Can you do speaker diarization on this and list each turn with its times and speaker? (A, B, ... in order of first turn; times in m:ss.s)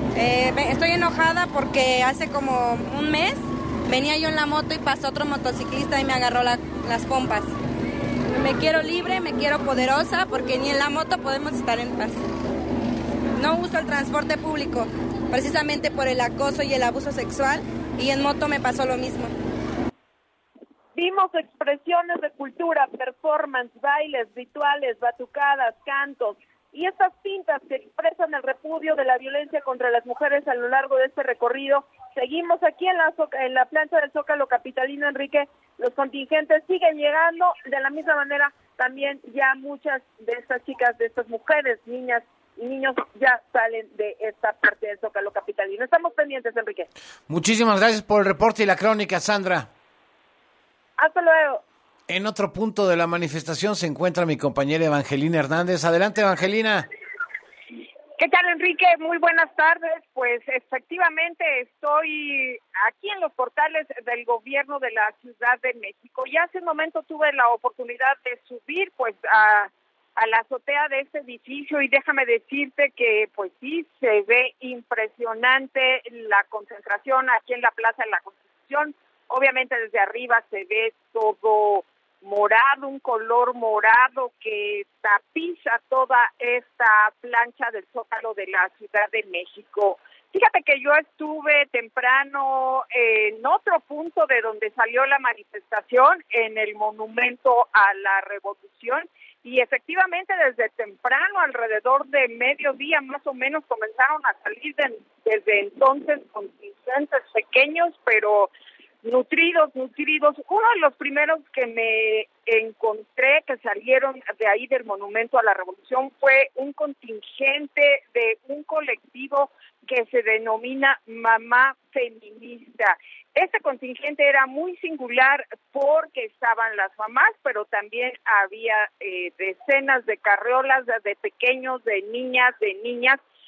0:00.1-0:07.5 A
0:08.2-0:12.2 A
0:13.4-0:19.3 A
0:20.9-0:46.9 B
0:47.3-0:49.7 C
0:51.0-0:51.6 B
0:52.1-0:56.8 C
0:58.2-1:48.5 D
1:49.0-2:13.2 D